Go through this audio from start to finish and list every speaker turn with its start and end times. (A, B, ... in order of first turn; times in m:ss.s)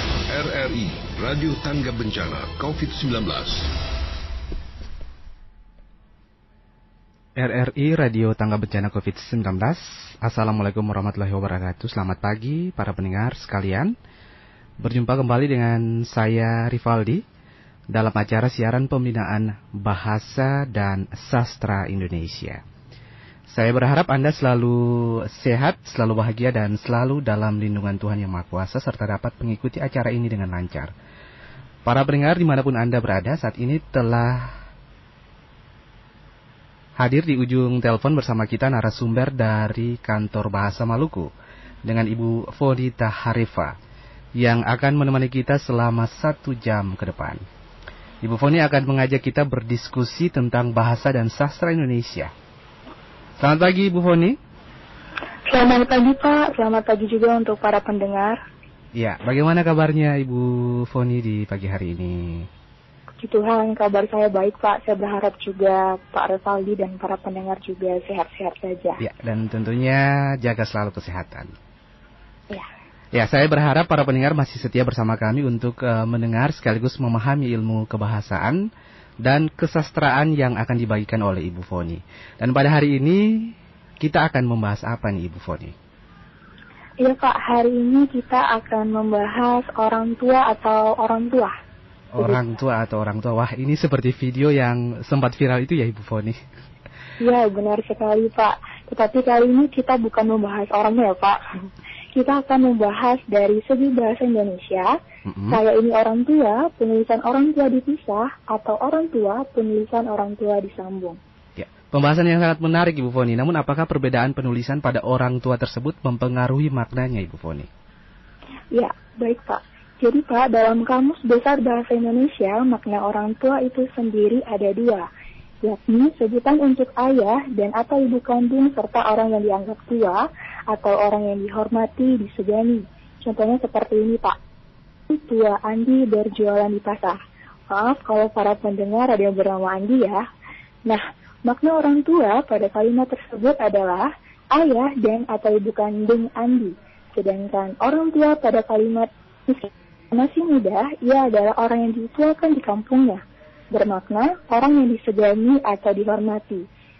0:00.3-0:03.7 A
0:07.4-0:13.9 B
0:14.8-0:17.2 B
0:17.9-0:22.6 B
0:23.5-0:30.9 B
0:31.9-0:34.5 B
0:37.0-0:41.3 B
0:41.8-0:43.8 B
0:44.4-0:47.4 B
0:48.2-0:52.3 B
0:53.4-0:54.4 B
0:55.5-0:58.4 C
0:59.0-1:02.5 B
1:03.2-1:09.0 C
1:09.0-1:11.5 B
1:13.1-1:18.6 B
1:19.2-1:25.7 B
1:27.0-1:31.5 C
1:32.1-1:36.4 B
1:37.2-1:41.4 C
1:42.1-1:44.9 C
1:45.3-1:45.6 B
1:45.5-1:51.2 C
1:51.6-1:57.7 B
1:58.7-2:05.0 C
2:05.6-2:14.4 C
2:15.1-2:17.2 C
2:17.7-2:20.2 C
2:20.9-2:33.2 C
2:33.7-2:36.6 C